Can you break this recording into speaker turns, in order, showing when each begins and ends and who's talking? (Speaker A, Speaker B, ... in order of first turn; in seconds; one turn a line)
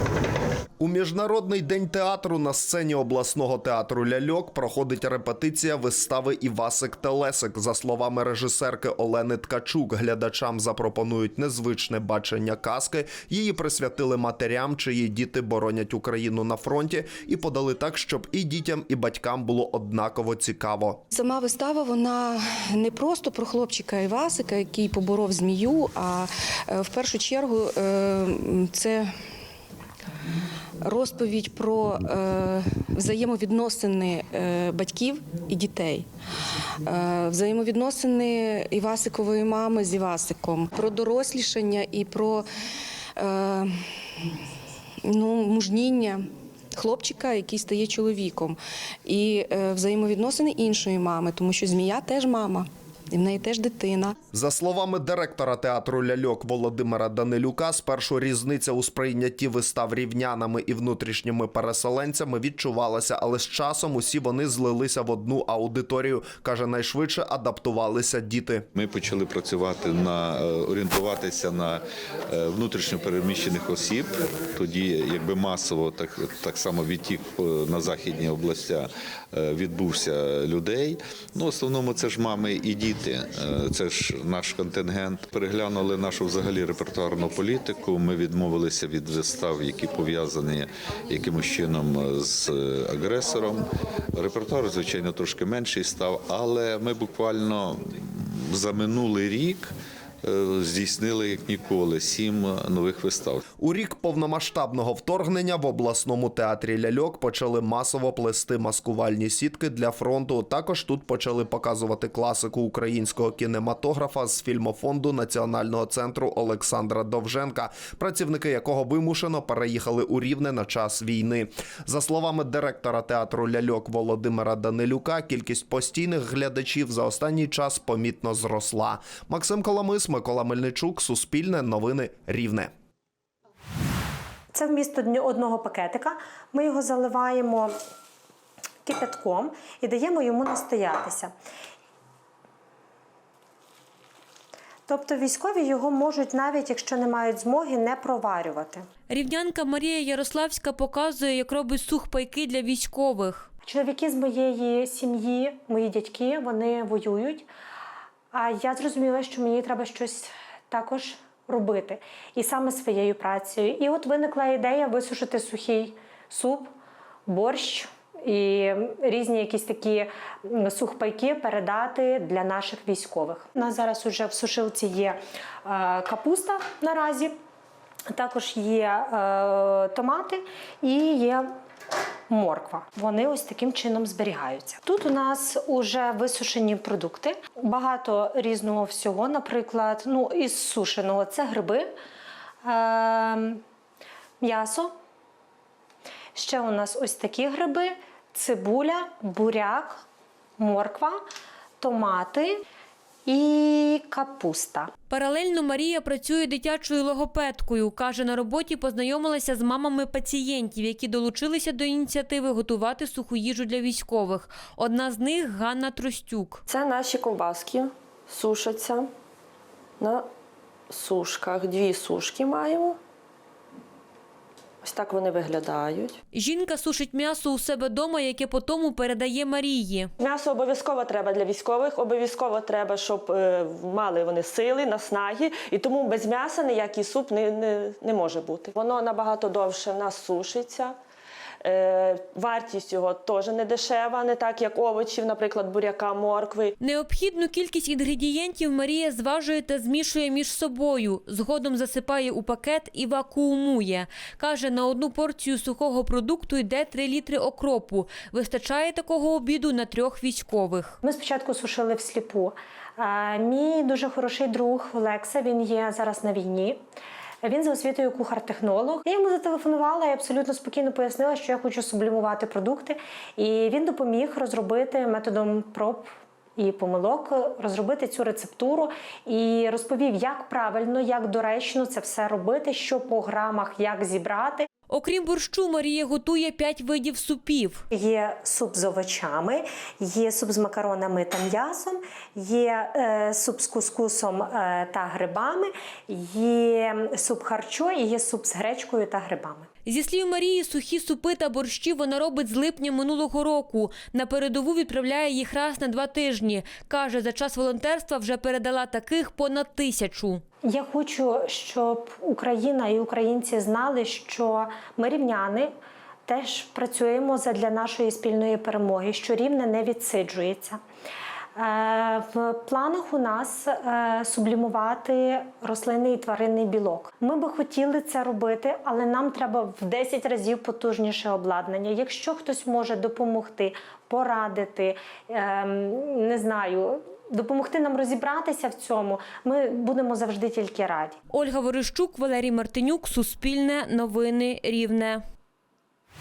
Speaker A: 0.8-21.0
Speaker B: 21.1-29.1
Speaker B: 30.8-36.1
Speaker B: 36.8-42.5
Speaker B: 43.2-43.7
Speaker B: 45.0-46.2
Speaker B: 46.8-54.1
Speaker A: 54.3-68.7
Speaker C: 68.8-71.8
Speaker C: 72.3-93.6
Speaker C: 94.2-97.9
Speaker C: 98.5-99.7
Speaker C: 100.3-103.4
Speaker A: 103.6-132.7
Speaker D: 134.5-137.7
Speaker D: 138.8-141.3
Speaker D: 144.9-148.9
Speaker E: 149.1-153.5
Speaker D: 153.7-157.5
Speaker D: 158.3-166.7
Speaker D: 167.3-177.3
Speaker D: 178.1-181.5
Speaker D: 182.3-191.9
Speaker D: 192.6-193.6
Speaker D: 194.4-194.9
Speaker D: 196.3-200.0
Speaker D: 200.6-201.2
Speaker D: 201.8-202.6
Speaker D: 203.3-204.9
Speaker E: 205.1-216.6
Speaker F: 216.7-219.1
Speaker F: 220.0-220.2
Speaker F: 220.9-223.0
Speaker F: 224.8-226.1
Speaker E: 226.3-230.1
Speaker F: 230.2-240.9
Speaker F: 241.6-246.7
Speaker E: 246.8-261.0
Speaker D: 261.0-266.8
Speaker D: 267.4-284.7
Speaker E: 284.9-287.8
Speaker D: 287.9-299.7
Speaker E: 299.9-310.4
Speaker D: 310.6-315.7
Speaker D: 316.3-320.8
Speaker D: 321.6-341.2
Speaker E: 341.3-345.2